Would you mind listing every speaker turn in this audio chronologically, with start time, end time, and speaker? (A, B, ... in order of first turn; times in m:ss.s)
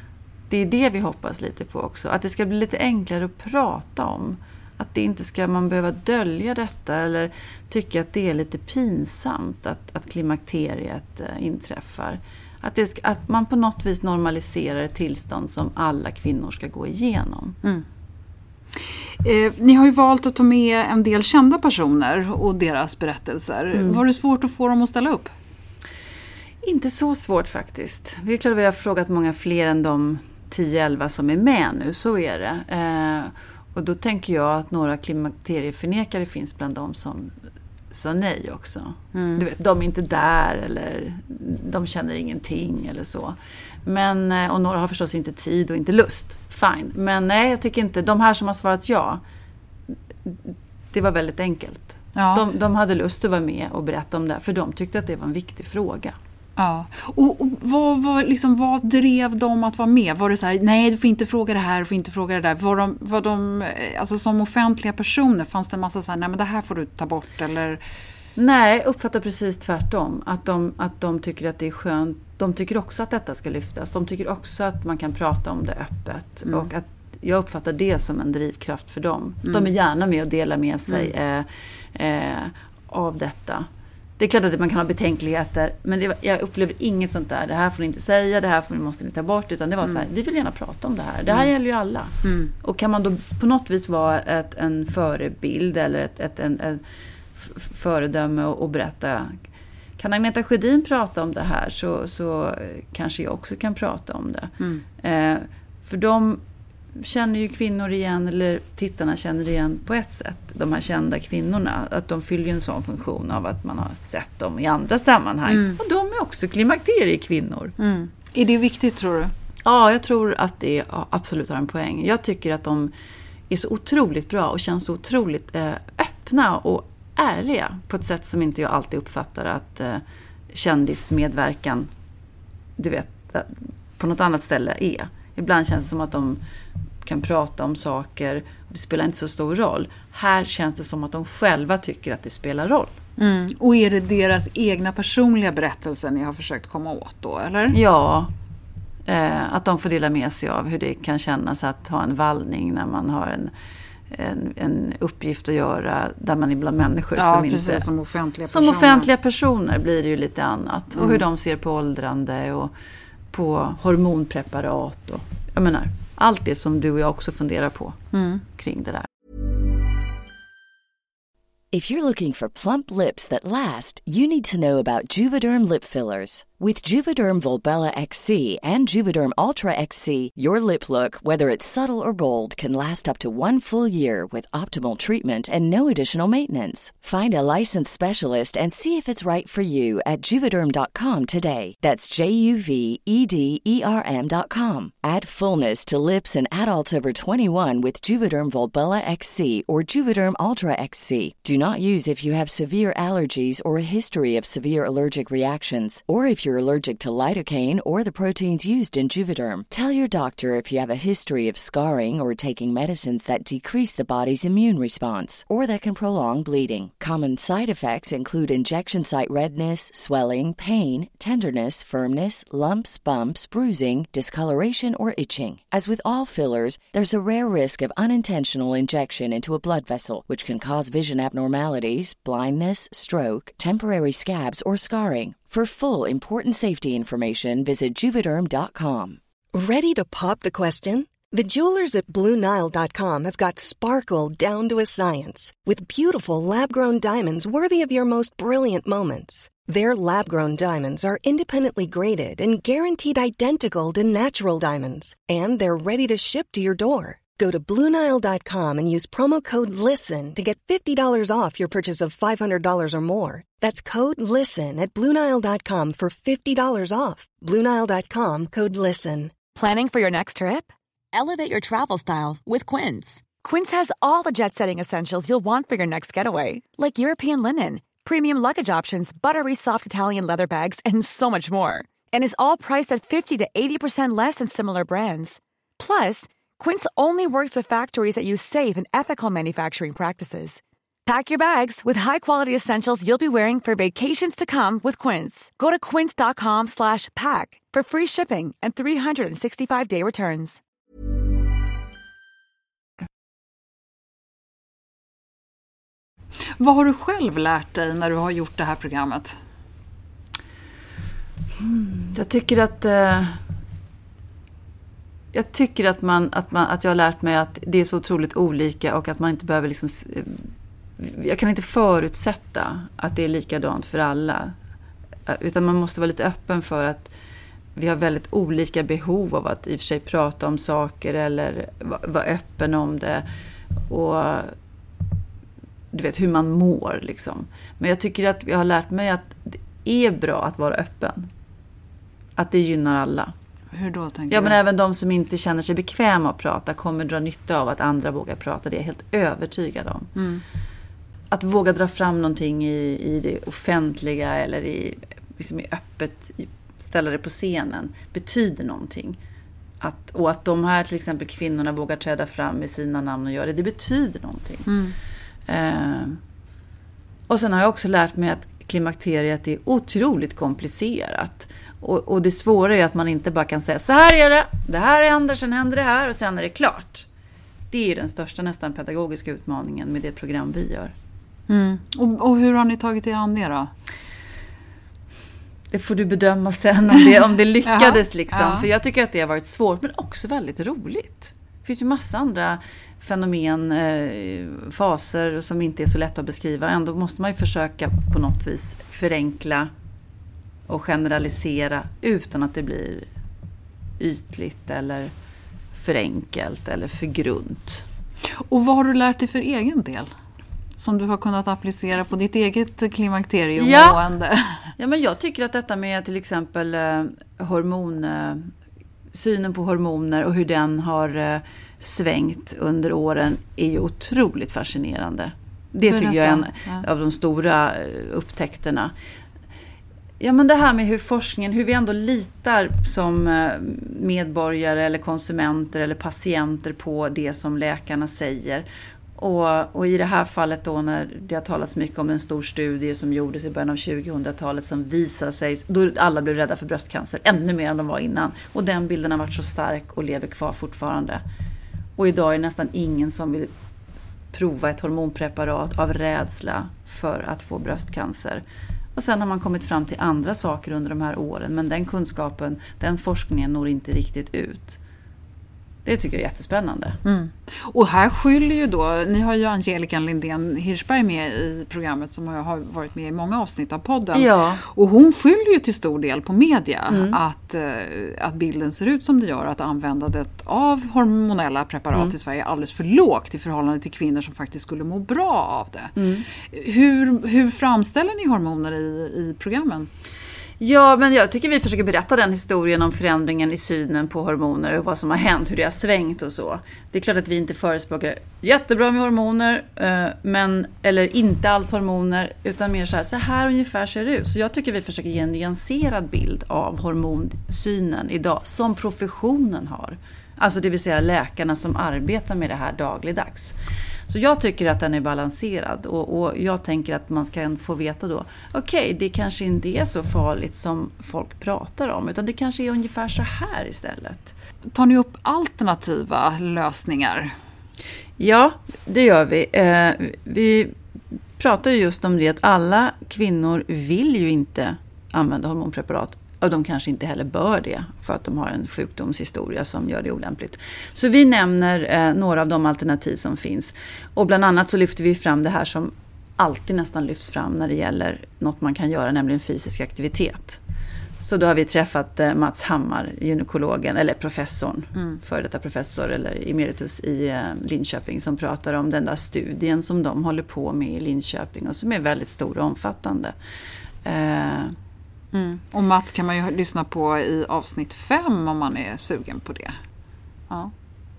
0:00.5-0:17.6 A
0:18.8-0:25.3 B
0:26.6-0:37.3 A
0:37.9-0:49.2 A
0:39.1-0:39.4 B
0:50.2-0:56.2 A
0:52.2-0:52.4 B
0:56.6-1:07.8 B
1:08.4-1:23.7 A
1:16.4-1:16.7 B
1:19.4-1:19.7 B
1:20.9-1:21.1 B
1:24.2-1:36.8 A
1:29.8-1:30.1 B
1:31.3-1:31.5 B
1:32.2-1:32.5 B
1:37.4-1:39.3 A
1:40.0-1:46.4 A
1:47.0-1:57.7 A
1:55.5-1:55.8 B
1:57.8-1:59.3 B
1:59.6-2:02.9 A
2:03.5-2:11.9 A
2:12.8-2:16.4 A
2:17.0-2:22.9 A
2:23.2-2:27.8 B
2:27.7-2:28.3 A
2:29.0-2:33.5 A
2:34.1-2:37.8 A
2:37.2-2:39.1 B
2:38.5-2:42.7 A
2:41.0-2:41.2 B
2:43.3-2:48.0 A
2:48.1-2:48.4 B
2:48.5-2:49.0 A
2:51.7-3:59.2 C
3:59.5-4:29.3 D
4:29.5-5:00.6 E
5:06.6-5:09.4 B
5:11.6-5:13.4 A
5:15.3-5:20.4 A
5:21.0-5:24.5 A
5:25.3-5:27.1 A
5:27.8-5:33.2 A
5:33.9-5:34.5 A
5:35.9-5:41.3 A
5:42.4-5:43.3 A
5:43.7-5:44.6 B
5:44.3-5:50.1 A
5:50.2-5:50.4 B
5:51.3-5:59.2 A
5:59.8-6:04.7 A
6:04.7-6:05.0 B
6:05.5-6:06.2 A
6:07.3-6:17.1 A
6:17.7-6:20.9 A
6:21.5-6:23.7 B
6:25.7-6:39.7 A
6:27.6-6:28.7 B
6:40.7-6:43.1 A
6:44.0-6:45.1 A
6:45.7-6:47.8 A
6:48.3-6:50.1 B
6:50.8-6:54.7 B
6:53.6-6:54.0 A
6:54.8-6:58.5 A
6:59.1-7:08.9 A
7:05.8-7:06.8 B
7:10.2-7:18.6 A
7:19.2-7:31.2 A
7:32.0-7:33.5 A
7:34.3-7:38.4 A
7:38.9-7:44.8 A
7:45.8-7:47.0 A
7:47.0-8:05.9 B
7:54.1-7:54.6 A
7:56.9-7:57.2 A
8:06.0-8:06.2 A
8:06.4-8:09.9 B
8:10.6-8:33.5 A
8:34.1-8:44.4 A
8:44.7-8:47.3 B
8:48.2-8:50.7 A
8:51.4-9:10.6 A
9:11.2-9:23.3 A
9:24.0-9:24.8 A
9:25.3-9:29.8 B